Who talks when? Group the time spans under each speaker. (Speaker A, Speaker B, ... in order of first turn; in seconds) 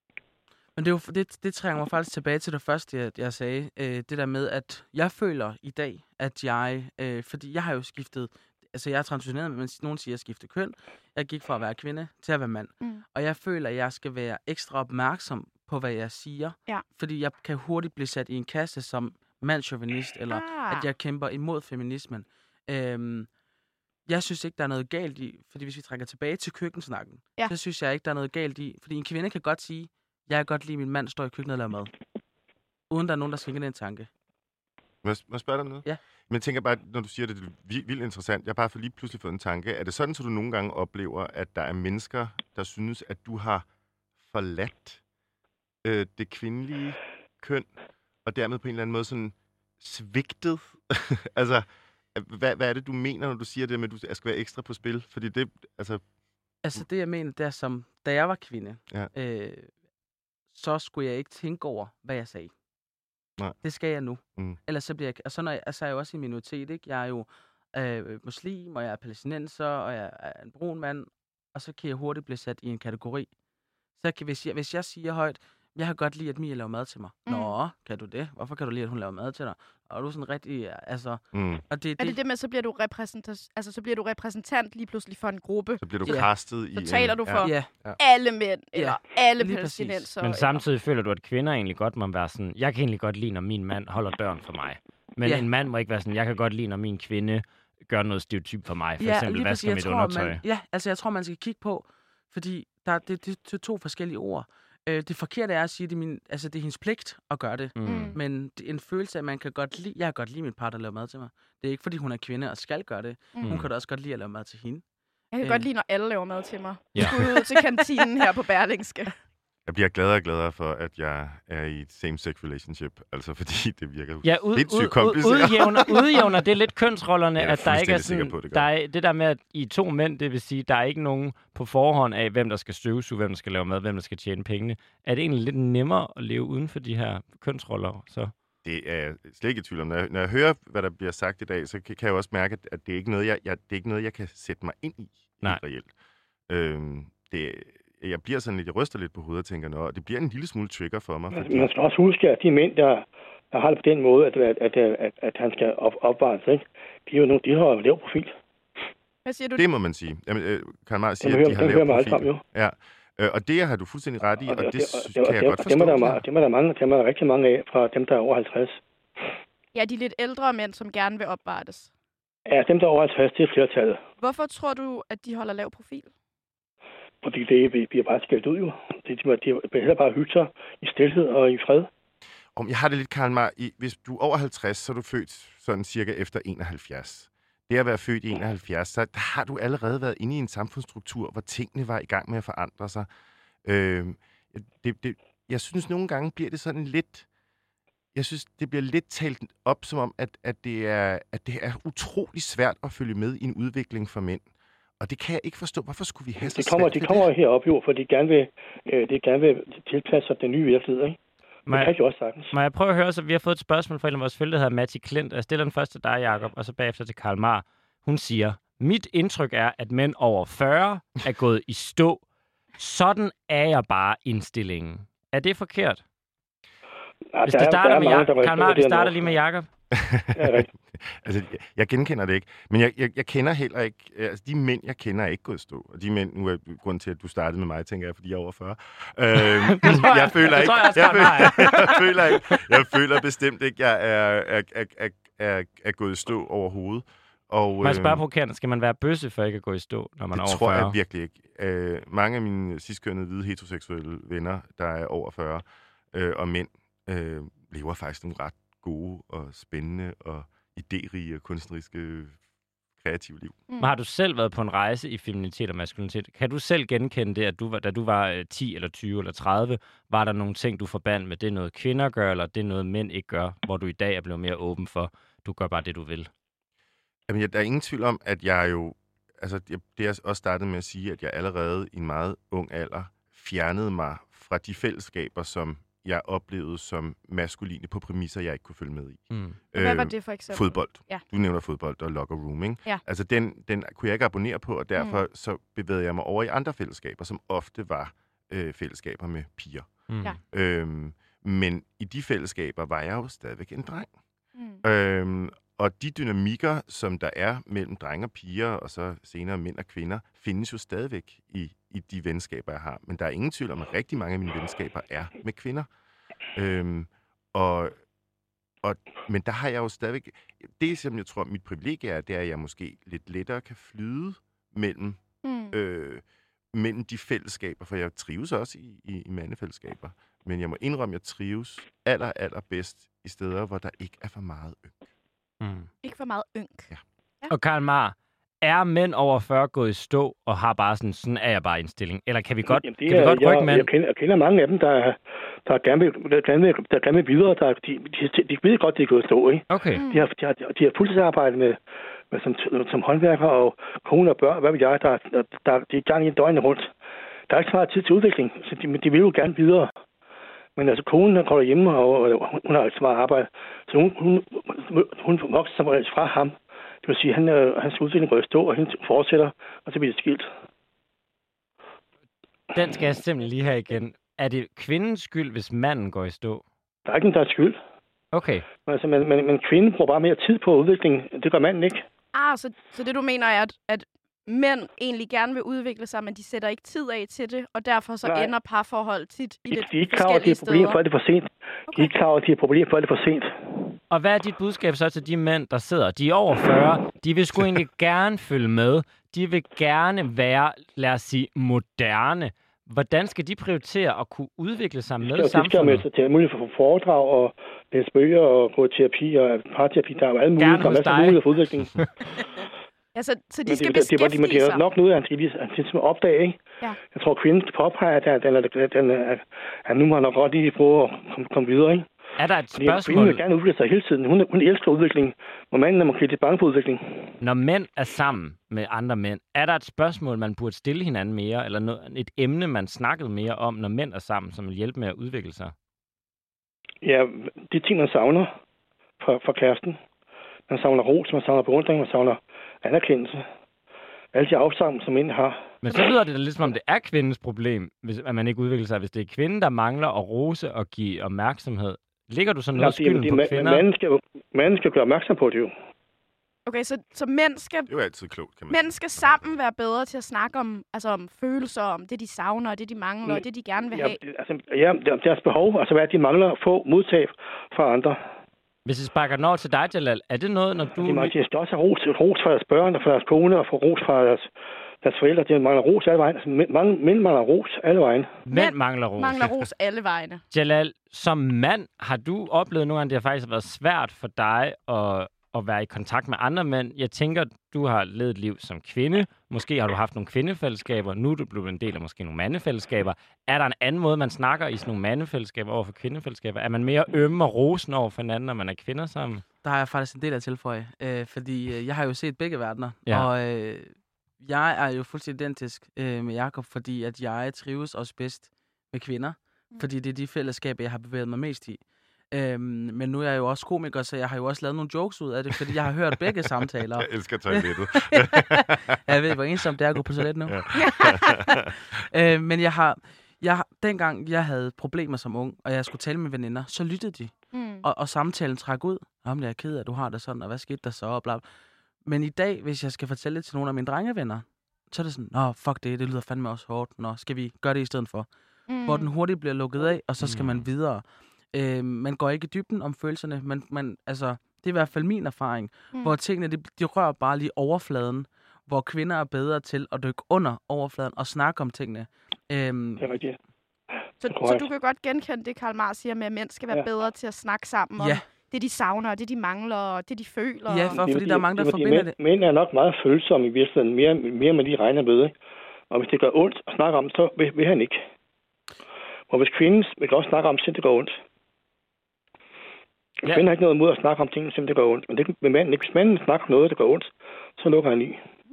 Speaker A: 0.8-23.3, 24.1-31.9, 32.9-34.1, 56.6-59.7, 60.5-62.5, 63.6-73.3, 74.0-82.2, 87.4-87.7, 88.8-90.1, 99.0-114.8, 115.4-115.7, 499.6-521.2, 521.9-531.4, 532.0-538.3, 538.9-553.1, 558.0-558.2, 560.7-562.1
Speaker B: 20.3-20.9, 77.3-77.5, 82.0-86.2, 86.8-90.6, 107.8-108.2, 115.3-119.1, 159.2-159.6, 169.7-171.9, 174.2-176.1, 263.7-264.0, 289.7-291.2, 295.0-295.2, 304.6-304.8, 325.4-325.8, 336.0-337.5, 350.0-350.3, 382.3-391.0, 413.1-414.9, 456.7-457.9, 458.7-464.2, 478.5-480.4, 520.8-521.5, 527.5-527.9, 538.7-539.1, 554.2-561.0
Speaker C: 35.0-43.7, 44.2-45.0, 45.8-47.7, 48.2-56.0, 81.3-81.6, 85.8-88.0, 119.7-126.2, 127.4-128.7, 138.6-145.9, 146.5-151.7, 159.6-166.2, 182.6-193.1, 193.7-197.3, 198.2-204.5, 205.0-207.3, 229.9-248.2, 250.3-262.4, 263.0-263.6, 277.3-299.9, 300.5-304.1, 304.8-315.9, 316.6-317.9, 318.8-325.2, 325.7-335.1, 457.9-459.6, 517.0-522.0
Speaker D: 90.2-100.4, 107.8-108.2, 124.2-138.3, 211.7-211.9, 212.5-222.2, 222.8-226.0, 227.5-229.7, 239.7-242.3, 247.8-250.9, 263.8-276.3, 289.3-289.6, 335.6-335.9, 337.5-343.9, 349.7-350.0, 372.7-376.6, 378.3-378.7, 394.1-406.1, 410.6-411.4, 422.4-423.4, 427.4-435.7, 445.8-453.9, 468.9-471.3, 478.5-479.5, 480.5-499.4, 540.2-540.7
Speaker E: 151.3-158.3, 161.2-162.4, 164.4-168.8, 172.5-174.0, 177.2-181.9, 206.4-212.5, 227.3-229.3, 230.3-230.7, 342.7-351.8, 352.3-356.9, 357.5-359.9, 360.8-370.5, 377.1-377.8, 378.9-382.1, 388.2-388.5, 389.7-393.6, 405.2-411.9, 413.7-416.6, 417.1-422.1, 422.8-427.3, 437.0-438.5, 439.2-440.0, 440.7-443.5, 444.3-445.6, 452.8-455.7, 463.9-468.2, 471.0-474.5, 475.0-478.4, 553.0-553.4, 554.2-554.7, 560.9-565.4, 565.9-568.0, 569.3-571.1, 573.2-578.2